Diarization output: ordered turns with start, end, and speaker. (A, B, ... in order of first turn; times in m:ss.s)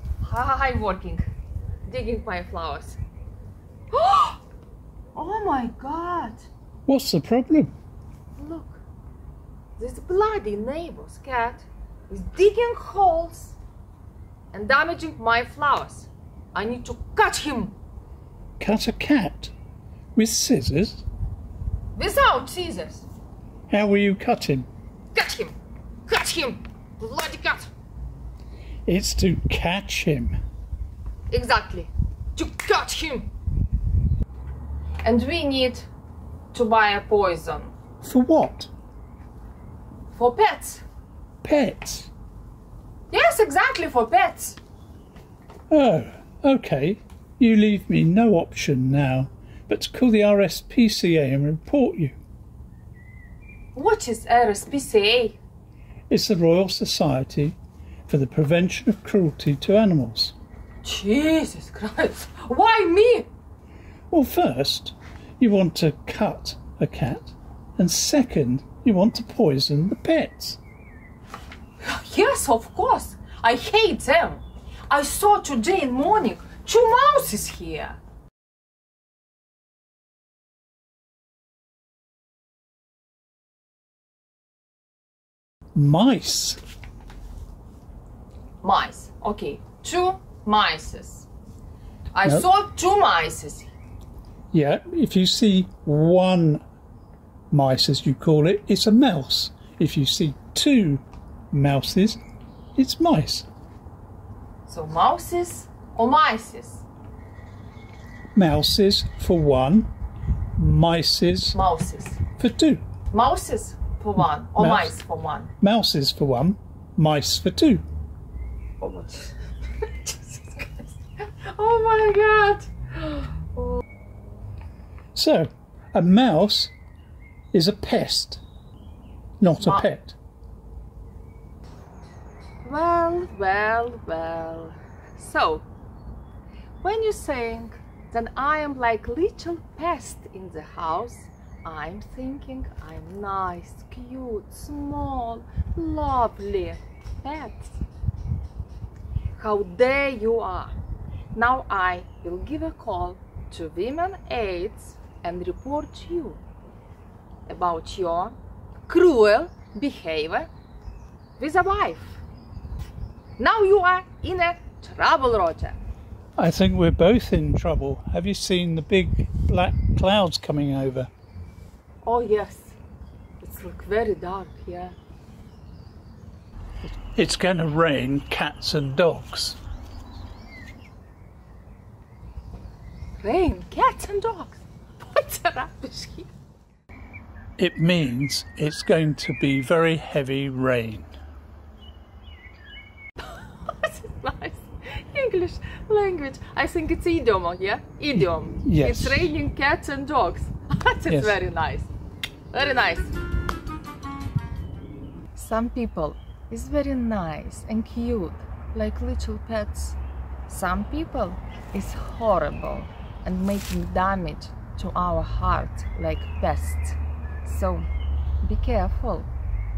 0:00.2-0:01.2 A
0:01.8-0:03.0 A
0:03.9-0:04.4 A
0:05.1-0:06.5 A
0:06.9-0:07.7 B
0:08.4-0:08.8 A
0:09.8-0:13.6 A
0:14.5-0:17.8 A
0:18.6-0:19.5 B
0:20.1-0:21.0 B
0:22.0-0:23.0 A
0:23.7-0:24.7 B
0:25.1-0:25.6 A
0:26.1-0:27.7 A
0:28.9-0:30.4 B
0:31.3-0:33.3 A
0:35.0-0:35.9 A
0:36.5-0:37.7 A
0:38.0-0:38.7 B
0:40.1-0:40.8 A
0:41.4-0:42.1 B
0:43.1-0:44.6 A
0:45.7-0:52.2 B
0:53.7-0:55.4 A
0:56.1-1:00.3 B
1:00.8-1:03.3 A
1:04.1-1:10.6 B
1:11.8-1:18.0 A
1:25.7-1:26.6 B
1:28.6-1:31.3 A
1:32.1-1:33.7 A
1:34.5-1:36.6 B
1:37.5-1:42.2 B
1:42.8-1:43.5 B
1:44.7-1:46.8 A
1:48.3-1:49.9 B
1:50.6-1:51.6 B
1:51.5-1:52.2 A
1:52.4-1:52.8 B
1:53.1-1:55.5 A
1:54.6-1:54.9 B
1:55.6-1:57.8 B
1:58.8-2:03.8 A
2:05.1-2:06.7 B
2:07.5-2:08.4 B
2:09.4-2:10.2 B
2:09.6-2:09.9 A
2:12.6-2:15.6 A
2:16.8-2:27.8 A
2:29.4-2:30.7 A
2:31.3-2:36.4 A
2:37.5-2:38.4 A
2:38.9-2:40.5 A
2:41.4-2:42.2 A
2:43.4-2:45.8 A
2:46.4-2:51.1 B
2:52.0-2:52.8 A
2:53.4-2:55.0 A
2:56.9-2:59.6 B
3:03.2-3:06.3 A
3:07.6-3:11.1 B
3:13.2-3:21.9 A
3:18.2-3:19.3 B
3:21.1-3:21.4 B
3:22.5-3:23.1 A
3:25.3-3:37.9 A
3:38.4-3:39.3 A